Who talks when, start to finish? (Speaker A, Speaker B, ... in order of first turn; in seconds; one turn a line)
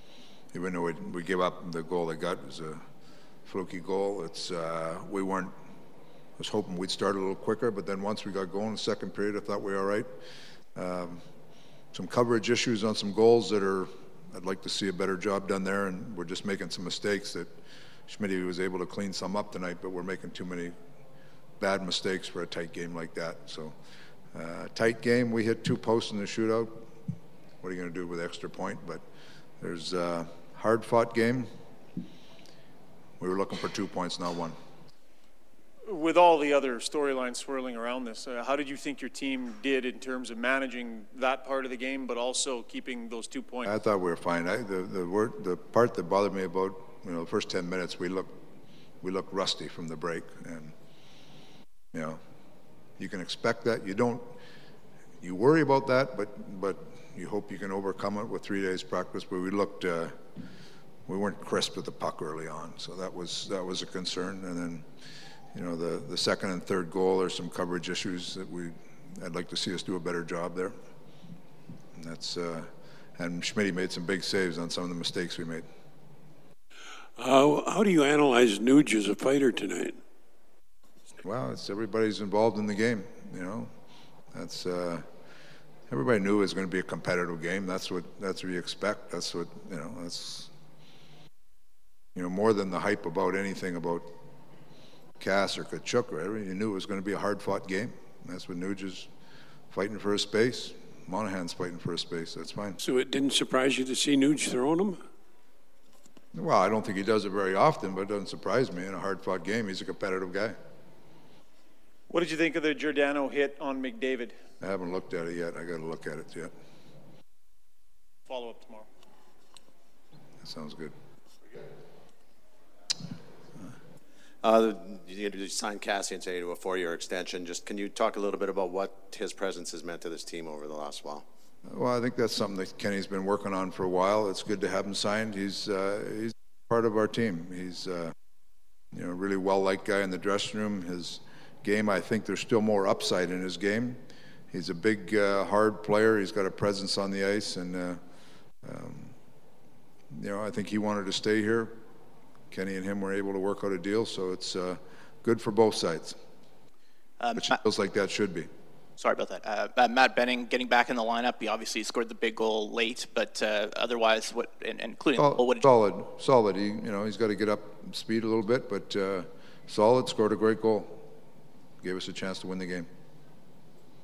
Speaker A: 0.5-2.8
Speaker A: 3.5-5.5
Speaker A: 6.4-10.1
Speaker A: 10.8-11.2
Speaker A: 11.9-17.5
Speaker A: 18.1-20.7
Speaker A: 21.6-23.7
Speaker A: 24.3-26.8
Speaker A: 27.6-29.0
Speaker A: 29.6-31.5
Speaker A: 33.2-34.5
Speaker B: 35.9-43.7
Speaker A: 43.6-48.3
Speaker A: 49.0-50.7
Speaker A: 51.9-52.2
Speaker A: 53.0-54.3
Speaker A: 55.2-60.1
Speaker A: 61.1-64.8
Speaker A: 65.5-70.7
Speaker A: 72.0-75.6
Speaker C: 77.2-80.0
Speaker A: 81.2-83.7
Speaker A: 84.3-85.0
Speaker A: 85.9-90.5
Speaker A: 92.1-94.1
Speaker A: 95.2-99.1
Speaker A: 99.7-102.8
Speaker C: 102.8-105.0
Speaker A: 106.3-110.5
Speaker B: 112.1-114.3
Speaker A: 114.6-116.5
Speaker B: 118.3-118.9
Speaker A: 120.4-120.9
Speaker D: 124.4-131.2
Speaker A: 131.6-138.1
Speaker A: 138.9-144.0
Speaker A: 144.5-148.0
Speaker A: 148.6-149.1
Speaker A: 150.1-151.7
Speaker A: 152.5-156.2
Speaker E: 157.2-157.6
Speaker A: 157.3-158.5
Speaker E: 159.0-165.6
Speaker A: 165.2-171.0
Speaker A: 171.8-172.9